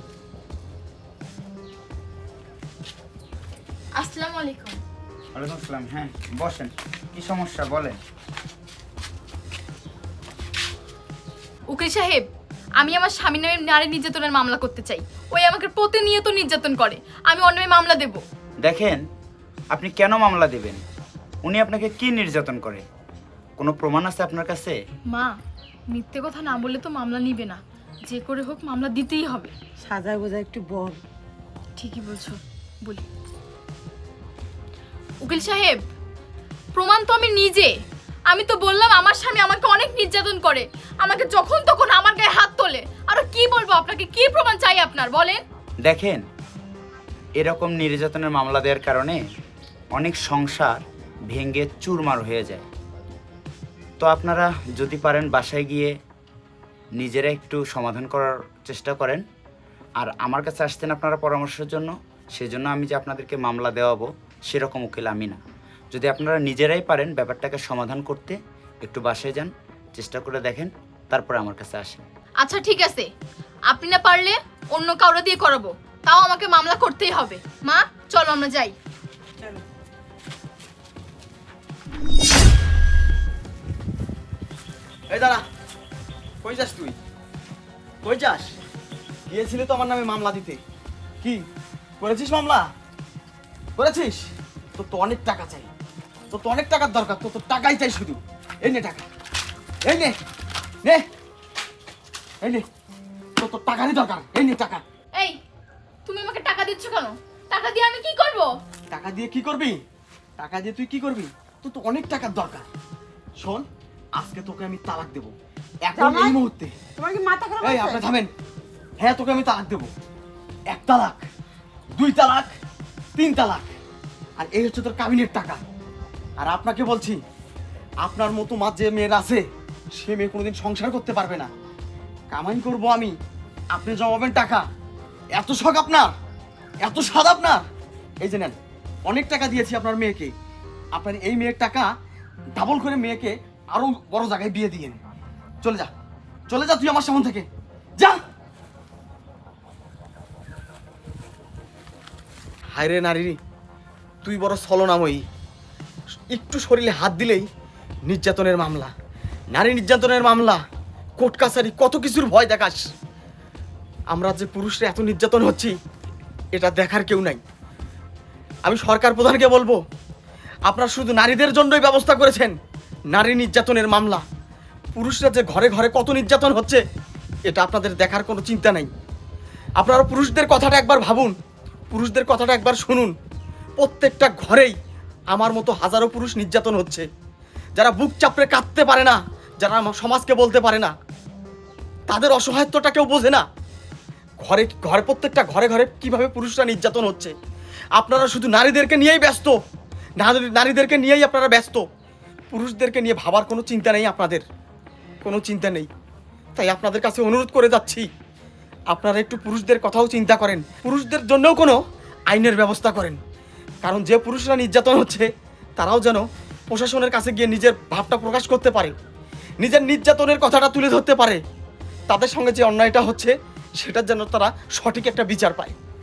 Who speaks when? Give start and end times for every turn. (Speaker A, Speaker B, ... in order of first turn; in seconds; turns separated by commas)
Speaker A: 4.0-4.8, Speaker B: 5.3-8.0, Speaker A: 11.7-12.2, Speaker A: 12.8-18.2, Speaker B: 18.6-19.0, Speaker B: 19.7-20.8, Speaker B: 21.4-22.8, Speaker B: 23.6-24.8, Speaker A: 25.1-25.4, Speaker A: 25.9-29.5, Speaker C: 29.8-31.0, Speaker A: 31.8-33.0, Speaker A: 35.2-35.8, Speaker A: 36.8-37.7, Speaker A: 38.3-45.4, Speaker B: 45.9-46.2, Speaker B: 47.4-49.2, Speaker B: 49.9-50.8, Speaker B: 51.3-52.7, Speaker B: 54.0-55.9, Speaker B: 57.0-59.2, Speaker B: 60.0-65.4, Speaker B: 65.9-72.0, Speaker A: 72.4-73.1, Speaker A: 73.7-78.8, Speaker D: 85.1-85.4, Speaker D: 86.4-87.0, Speaker D: 88.0-88.5, Speaker D: 89.3-90.6, Speaker D: 92.0-92.7, Speaker D: 93.8-95.7, Speaker D: 96.3-99.0, Speaker D: 99.9-100.2, Speaker D: 103.4-104.8, Speaker A: 106.0-108.5, Speaker D: 108.9-109.8, Speaker D: 110.4-112.7, Speaker D: 113.4-113.6, Speaker D: 114.2-115.3, Speaker D: 115.9-116.7, Speaker C: 116.0-116.4, Speaker C: 117.0-118.0, Speaker D: 117.6-118.3, Speaker D: 119.0-119.9, Speaker D: 120.7-121.2, Speaker D: 122.0-122.5, Speaker D: 123.2-123.7, Speaker D: 124.4-125.6, Speaker D: 126.4-127.2, Speaker D: 128.0-129.4, Speaker D: 130.0-131.5, Speaker D: 132.3-133.1, Speaker D: 133.7-134.6, Speaker D: 135.3-136.1, Speaker D: 136.8-137.7, Speaker D: 138.2-138.6, Speaker D: 139.1-140.3, Speaker D: 140.9-141.9, Speaker D: 142.6-145.0, Speaker D: 145.6-145.9, Speaker D: 146.5-147.4, Speaker D: 152.7-153.4, Speaker D: 154.2-155.2, Speaker D: 156.3-157.5, Speaker D: 158.1-158.9, Speaker D: 159.5-160.6, Speaker D: 161.2-162.8, Speaker D: 164.1-165.8, Speaker D: 166.6-167.4, Speaker D: 168.6-169.8, Speaker D: 170.7-172.6, Speaker D: 173.1-174.2, Speaker D: 174.9-176.8, Speaker D: 177.5-178.9, Speaker D: 179.8-181.3, Speaker D: 181.9-183.1, Speaker D: 183.8-184.8, Speaker D: 185.3-187.0, Speaker D: 187.8-190.9, Speaker D: 192.1-193.4, Speaker D: 194.4-197.3, Speaker D: 198.0-199.5, Speaker D: 200.2-201.8, Speaker D: 202.5-204.4, Speaker D: 205.2-205.9, Speaker D: 206.6-208.1, Speaker D: 208.9-211.8, Speaker D: 212.3-213.2, Speaker D: 213.8-215.3, Speaker D: 215.8-218.9, Speaker D: 219.6-221.4, Speaker D: 222.1-225.8